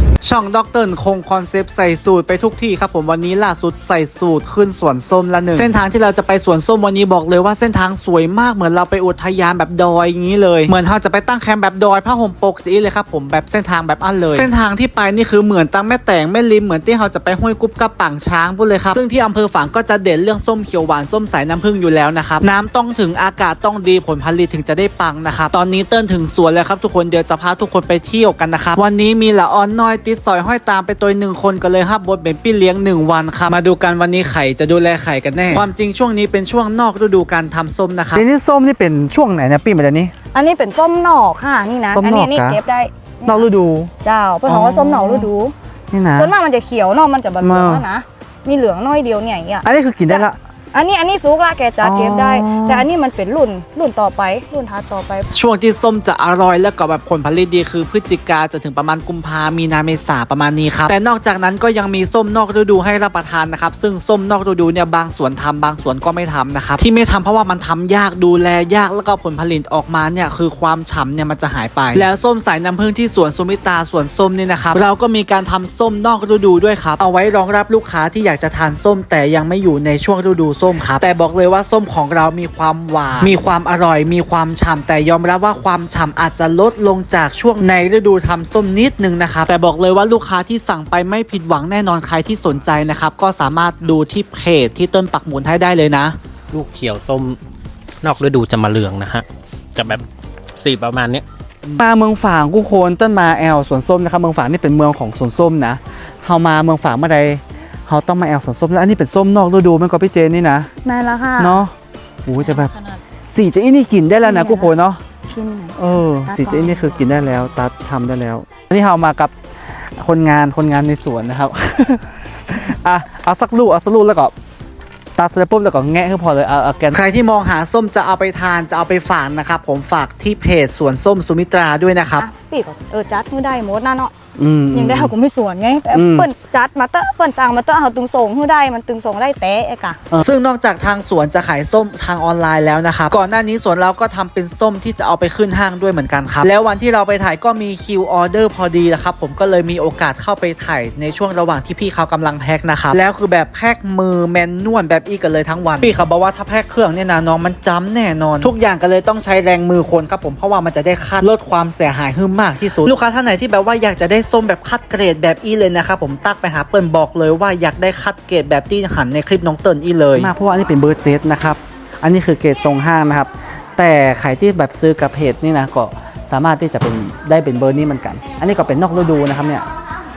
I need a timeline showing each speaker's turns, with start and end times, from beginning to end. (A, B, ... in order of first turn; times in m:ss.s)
0:00.2-0:38.2 A
0:38.1-0:40.1 B
0:40.3-0:43.5 C
0:41.9-0:42.6 B
0:43.2-0:43.9 B
0:44.0-0:45.5 C
0:44.4-0:45.3 B
0:45.9-0:46.3 B
0:46.1-0:55.3 C
0:47.4-0:47.8 B
0:49.6-0:50.4 B
0:51.8-0:52.9 B
0:55.3-1:36.2 A
1:36.5-1:37.4 D
1:38.0-1:40.0 D
1:40.6-1:41.2 D
1:41.8-1:47.4 B
1:47.9-1:50.7 B
1:50.8-1:51.7 C
1:51.4-1:51.7 B
1:52.3-1:52.7 B
1:52.5-1:53.0 C
1:53.3-1:55.0 B
1:54.2-1:54.7 C
1:55.3-1:57.5 C
1:55.8-1:59.3 B
2:00.0-2:04.3 B
2:05.2-2:07.0 B
2:06.9-2:12.2 A
2:12.2-2:14.1 C
2:14.4-2:15.1 B
2:14.7-2:20.0 C
2:15.9-2:16.3 B
2:20.1-2:50.3 A
2:50.2-2:59.6 B